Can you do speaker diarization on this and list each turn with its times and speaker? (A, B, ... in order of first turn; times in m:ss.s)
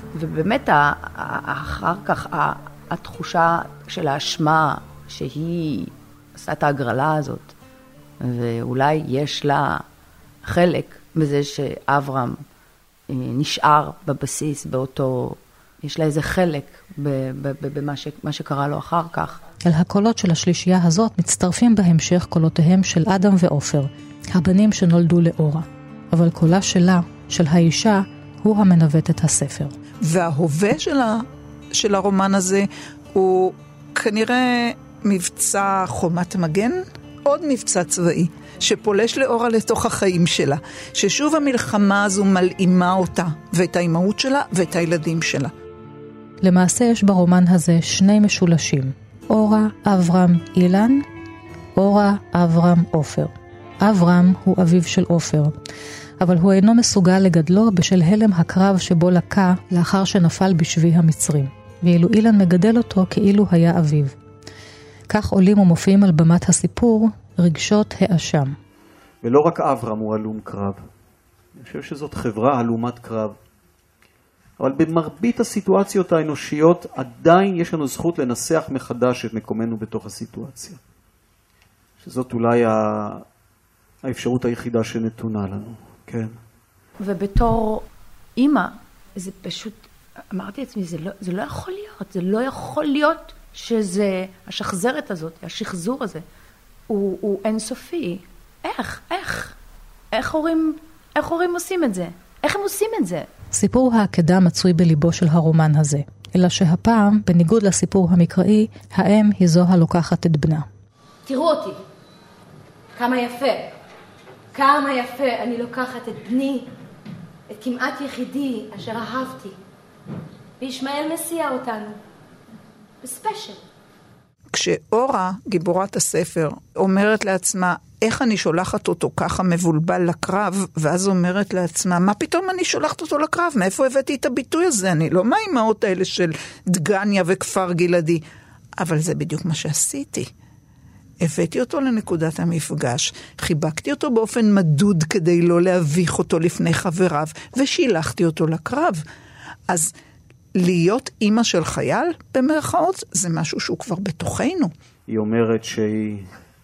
0:00.1-0:07.5 A
0:08.2-0:09.8 A
0:10.4-0:12.4 A
0:13.1-0:19.4 A
0:19.6-0:29.7 B
0:30.0-0:45.5 C
0:46.4-0:51.0 B
0:51.8-0:55.5 B
0:56.2-1:04.1 B
1:05.1-1:08.6 B
1:09.2-1:10.8 D
1:11.6-1:13.4 D
1:14.6-1:20.8 D
1:22.0-1:23.2 D
1:24.0-1:26.3 D
1:27.0-1:27.8 A
1:28.4-1:36.2 A
1:36.9-1:39.6 A
1:40.1-1:43.3 A
1:43.5-1:50.7 B
1:51.2-1:51.8 E
1:53.0-1:53.7 E
1:54.5-1:56.7 E
1:57.5-1:59.6 E
2:00.6-2:02.0 E
2:03.0-2:03.6 E
2:04.5-2:18.2 C
2:18.8-2:20.3 C
2:21.2-2:29.0 C
2:30.6-2:34.7 C
2:35.1-2:36.3 D